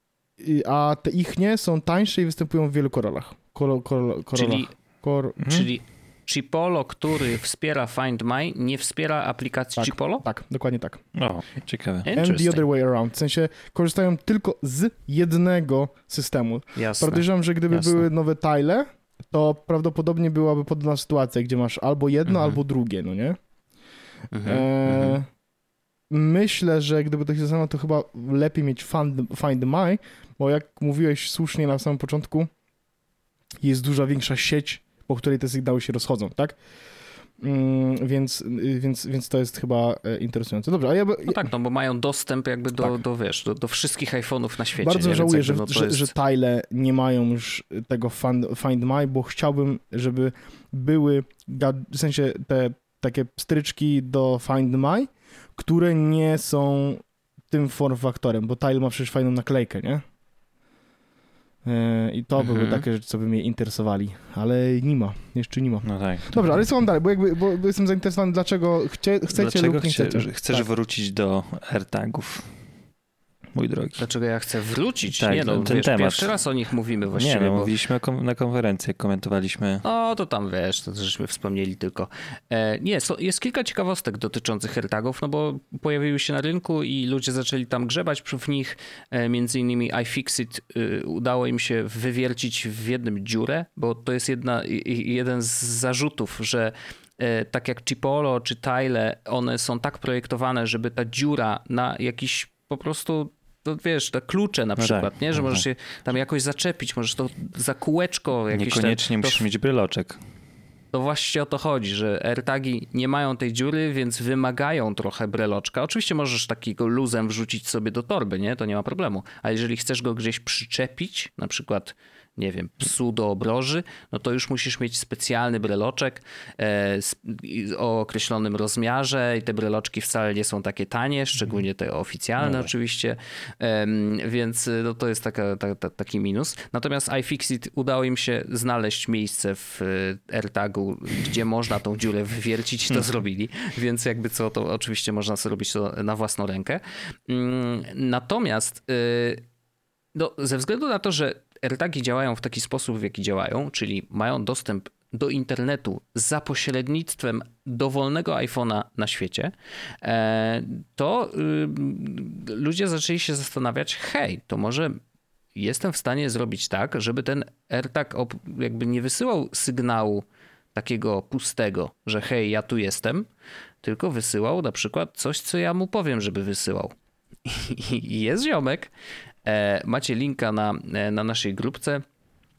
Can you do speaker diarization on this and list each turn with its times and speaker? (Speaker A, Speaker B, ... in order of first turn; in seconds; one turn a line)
Speaker A: 0.4-5.4
Speaker B: 4.3-4.7
Speaker C: 5.4-5.7
Speaker B: 5.4-10.2
Speaker A: 9.8-11.0
Speaker C: 11.2-12.1
Speaker B: 12.1-12.7
Speaker A: 12.2-23.4
Speaker B: 16.8-18.1
Speaker B: 24.3-25.2
Speaker A: 24.4-25.3
Speaker A: 26.1-32.5
Speaker A: 33.6-36.6
Speaker A: 37.4-41.4
Speaker B: 41.2-46.1
Speaker A: 44.8-60.0
Speaker A: 61.6-70.7
Speaker C: 62.4-62.8
Speaker C: 65.8-66.4
Speaker C: 69.3-72.5
Speaker C: 73.5-74.0
Speaker B: 74.0-77.7
Speaker C: 75.1-76.3
Speaker C: 77.2-79.8
Speaker B: 79.8-109.4
Speaker C: 104.8-105.6
Speaker C: 108.5-110.2
Speaker B: 110.9-149.4
Speaker C: 132.4-132.7
Speaker B: 150.1-165.0
Speaker B: 165.6-173.3
Speaker B: 173.8-176.9
Speaker B: 177.4-178.9
Speaker B: 179.4-182.0